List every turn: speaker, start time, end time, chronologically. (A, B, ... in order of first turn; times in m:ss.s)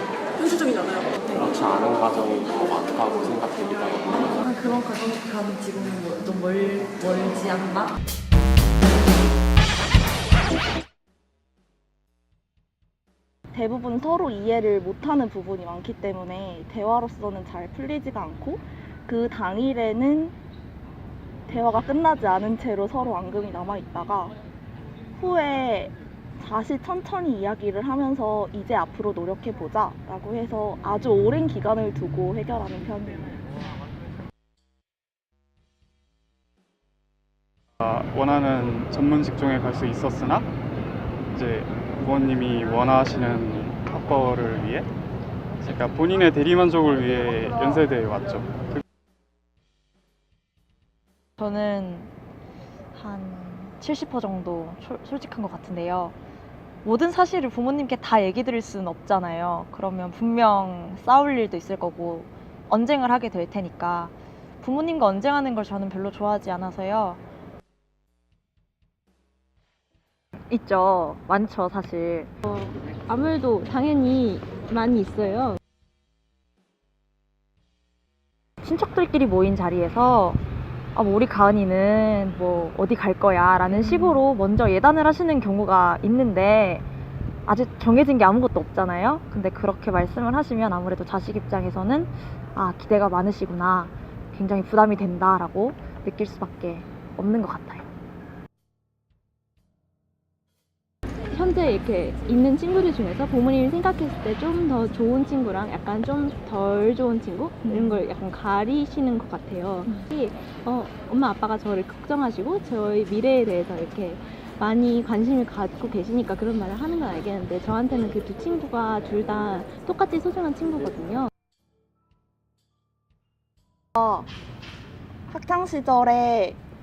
0:01.3-0:04.4 A
0:04.5-0:07.4 B
0:13.5-0:20.3 C
0:21.5-0:24.3 C
0:25.1-0:33.3 C
0:37.8-0:40.5 D
0:41.3-0:44.9 D
0:45.6-0:48.8 D
0:51.4-0:52.1 E
0:52.9-0:56.2 E
0:56.8-1:07.2 E
1:10.5-1:12.3 E
1:12.4-1:15.6 F
1:18.6-1:20.4 E
1:20.9-1:26.8 E
1:27.4-1:37.9 E
1:41.3-2:01.3 F
2:04.0-2:04.3 C
2:05.3-2:06.6 C